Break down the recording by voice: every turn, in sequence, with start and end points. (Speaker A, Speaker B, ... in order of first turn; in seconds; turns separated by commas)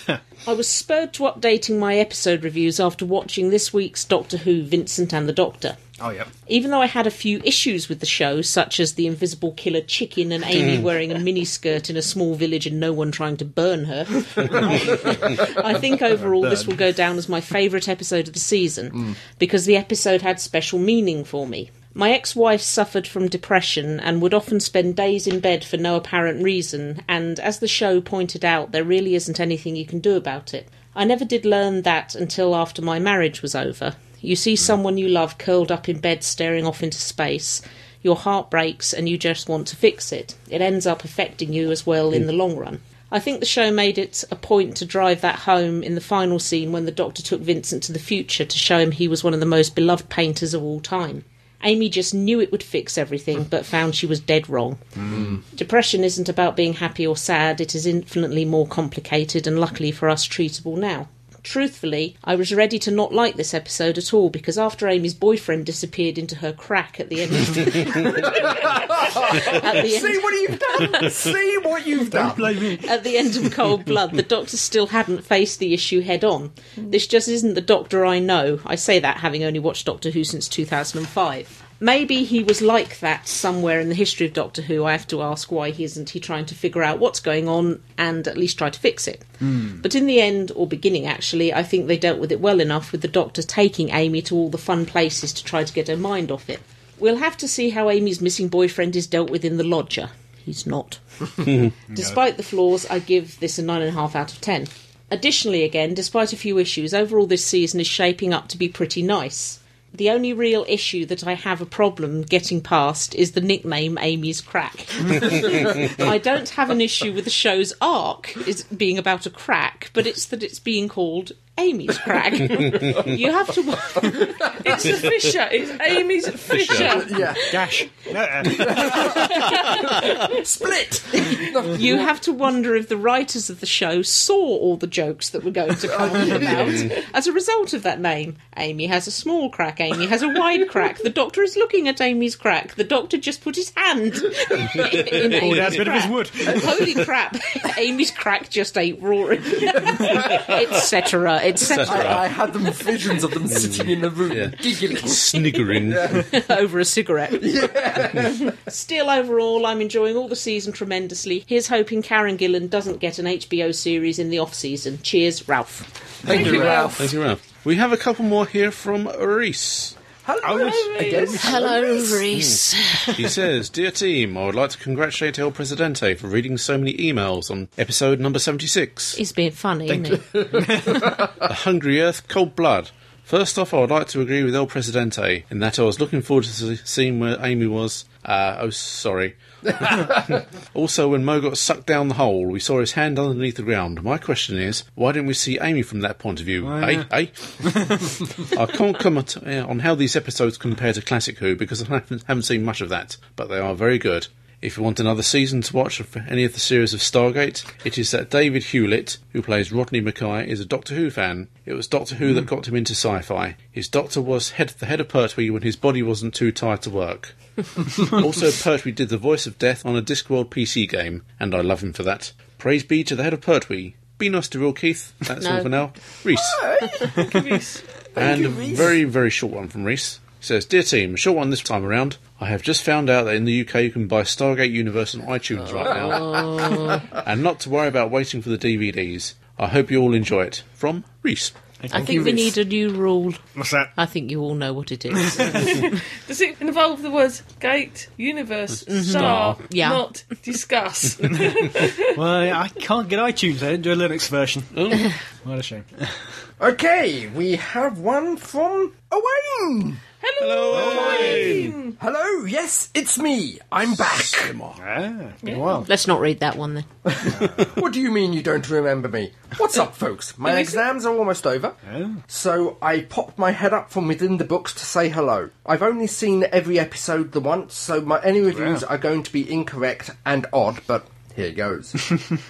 Speaker A: 0.5-5.8, Speaker B: 6.0-6.3, Speaker A: 6.5-71.1, Speaker B: 14.6-15.3, Speaker B: 16.4-16.8, Speaker C: 55.1-55.4, Speaker C: 68.1-72.7, Speaker B: 72.1-72.9, Speaker A: 72.8-124.6, Speaker B: 101.9-102.2, Speaker D: 124.4-127.7, Speaker E: 126.5-127.1, Speaker C: 126.8-127.6, Speaker B: 127.5-129.2, Speaker C: 128.5-132.1, Speaker D: 128.9-130.3, Speaker A: 131.7-152.2, Speaker C: 135.8-136.9, Speaker E: 144.7-145.8, Speaker B: 145.3-147.0, Speaker C: 149.8-150.4, Speaker E: 151.7-152.2, Speaker C: 151.8-156.3, Speaker E: 153.5-156.2, Speaker A: 156.1-165.9, Speaker C: 157.4-158.6, Speaker C: 166.2-167.1, Speaker D: 166.2-166.9, Speaker E: 166.3-170.0, Speaker C: 170.2-172.3, Speaker B: 170.4-171.6, Speaker D: 170.5-171.4, Speaker A: 171.4-173.2, Speaker E: 172.3-172.6, Speaker E: 173.1-179.2, Speaker A: 179.2-180.3, Speaker B: 179.9-181.2, Speaker C: 180.5-181.1, Speaker E: 181.3-226.7, Speaker C: 189.8-190.1, Speaker B: 196.6-197.1, Speaker B: 197.7-198.2, Speaker A: 225.4-225.7, Speaker C: 226.3-227.3, Speaker D: 227.1-228.1, Speaker C: 228.2-228.9, Speaker E: 228.2-241.6, Speaker A: 236.0-237.1, Speaker B: 241.8-242.3, Speaker C: 241.9-242.5, Speaker A: 241.9-243.4, Speaker B: 243.6-243.9, Speaker A: 244.0-246.0, Speaker B: 245.2-245.6, Speaker D: 245.5-252.1, Speaker A: 248.9-250.0, Speaker E: 249.1-249.6, Speaker B: 251.3-256.1, Speaker E: 254.8-255.1, Speaker C: 256.6-260.0, Speaker D: 260.2-261.9, Speaker E: 260.4-261.8, Speaker B: 260.7-261.6, Speaker C: 262.0-264.5, Speaker E: 264.0-264.8, Speaker B: 264.8-265.9, Speaker D: 265.4-265.9, Speaker A: 265.9-266.9, Speaker C: 267.1-271.8, Speaker B: 267.2-267.7, Speaker D: 270.5-270.8, Speaker B: 271.9-272.2, Speaker C: 272.3-282.2, Speaker B: 278.5-278.8